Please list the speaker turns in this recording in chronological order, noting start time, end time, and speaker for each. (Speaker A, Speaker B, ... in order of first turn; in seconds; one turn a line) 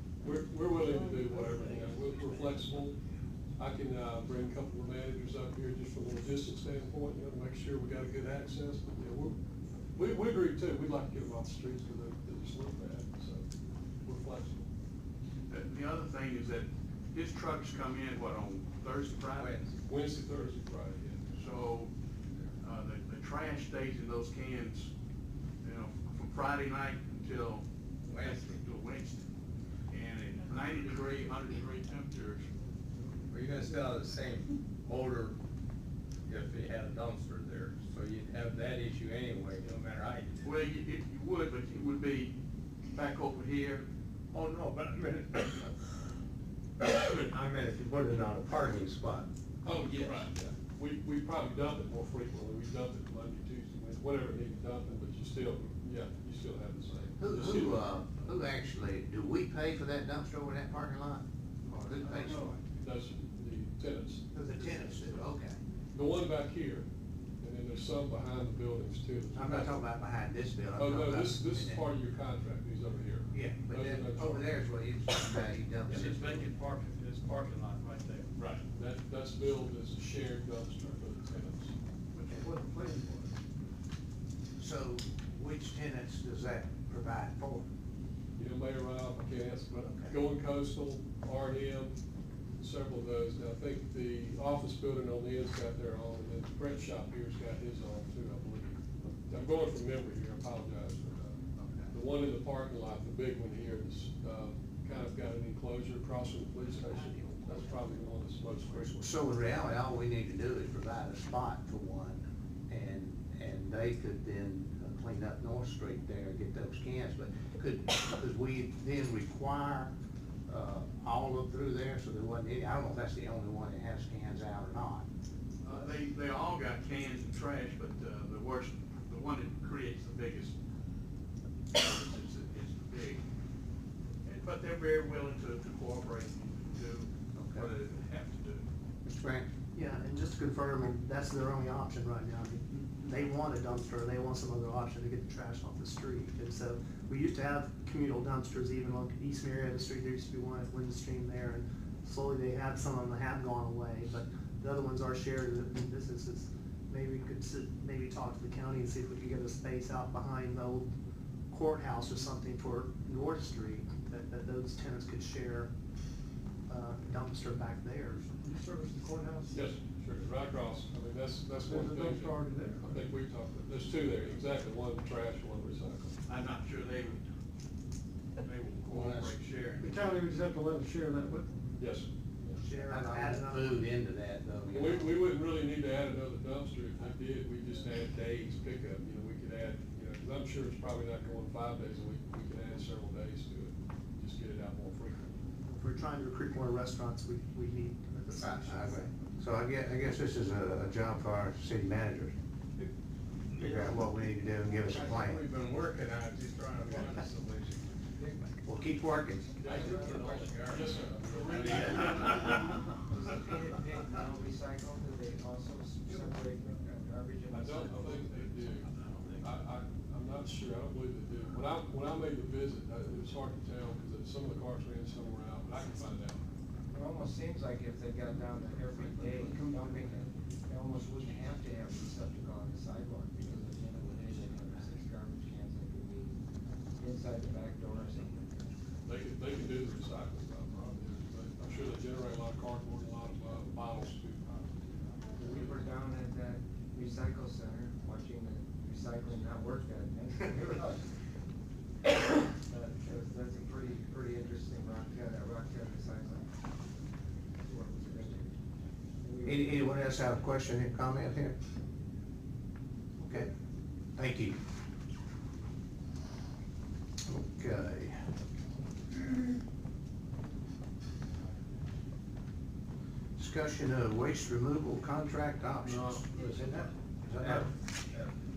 Speaker A: 0.2-3.0
Speaker A: 3.6-9.4
Speaker A: 9.9-13.5
Speaker A: 14.0-14.7
Speaker B: 15.5-19.6
Speaker C: 19.4-19.7
Speaker A: 19.9-21.4
Speaker B: 21.3-21.9
Speaker B: 22.6-24.9
Speaker B: 25.6-29.3
Speaker C: 28.1-28.6
Speaker B: 29.9-32.5
Speaker C: 33.3-35.4
Speaker C: 36.3-40.6
Speaker B: 40.4-42.3
Speaker B: 42.9-43.9
Speaker C: 44.3-45.9
Speaker C: 46.8-49.3
Speaker A: 49.7-58.0
Speaker C: 49.8-50.3
Speaker B: 49.9-50.3
Speaker D: 57.2-62.5
Speaker A: 62.8-64.8
Speaker D: 64.3-65.6
Speaker A: 65.9-66.9
Speaker A: 67.4-69.8
Speaker D: 69.3-71.8
Speaker A: 70.8-74.6
Speaker D: 73.3-76.5
Speaker B: 75.9-78.6
Speaker A: 78.7-81.8
Speaker B: 82.1-82.5
Speaker E: 82.3-83.3
Speaker D: 84.6-87.7
Speaker A: 88.4-92.0
Speaker D: 89.9-90.2
Speaker A: 92.6-109.0
Speaker D: 101.6-101.9
Speaker D: 108.9-119.9
Speaker D: 120.5-125.1
Speaker B: 125.6-130.6
Speaker B: 131.7-133.2
Speaker B: 134.2-138.7
Speaker D: 137.3-137.7
Speaker D: 139.1-139.5
Speaker F: 139.7-160.9
Speaker F: 161.5-165.7
Speaker F: 166.7-168.3
Speaker E: 168.4-169.5
Speaker A: 169.5-176.2
Speaker E: 171.7-172.8
Speaker B: 176.3-177.3
Speaker B: 178.4-180.2
Speaker D: 178.9-179.3
Speaker E: 179.8-181.5
Speaker A: 181.8-182.6
Speaker F: 182.6-183.9
Speaker D: 182.7-185.3
Speaker A: 184.7-195.4
Speaker F: 195.7-199.1
Speaker D: 198.3-202.3
Speaker C: 203.5-204.0
Speaker D: 203.6-205.4
Speaker C: 204.8-208.1
Speaker D: 208.6-209.5
Speaker A: 209.6-212.5
Speaker C: 209.6-212.5
Speaker G: 209.7-210.5
Speaker G: 213.0-218.5
Speaker A: 217.5-226.4
Speaker G: 226.9-236.4
Speaker G: 237.0-238.8
Speaker A: 239.1-244.7
Speaker G: 245.3-251.0
Speaker A: 245.4-245.7
Speaker G: 252.2-256.6
Speaker G: 257.6-258.6
Speaker G: 259.2-260.1
Speaker D: 259.4-261.6
Speaker D: 263.2-263.5
Speaker D: 264.1-264.6
Speaker D: 267.3-268.2
Speaker D: 273.4-277.7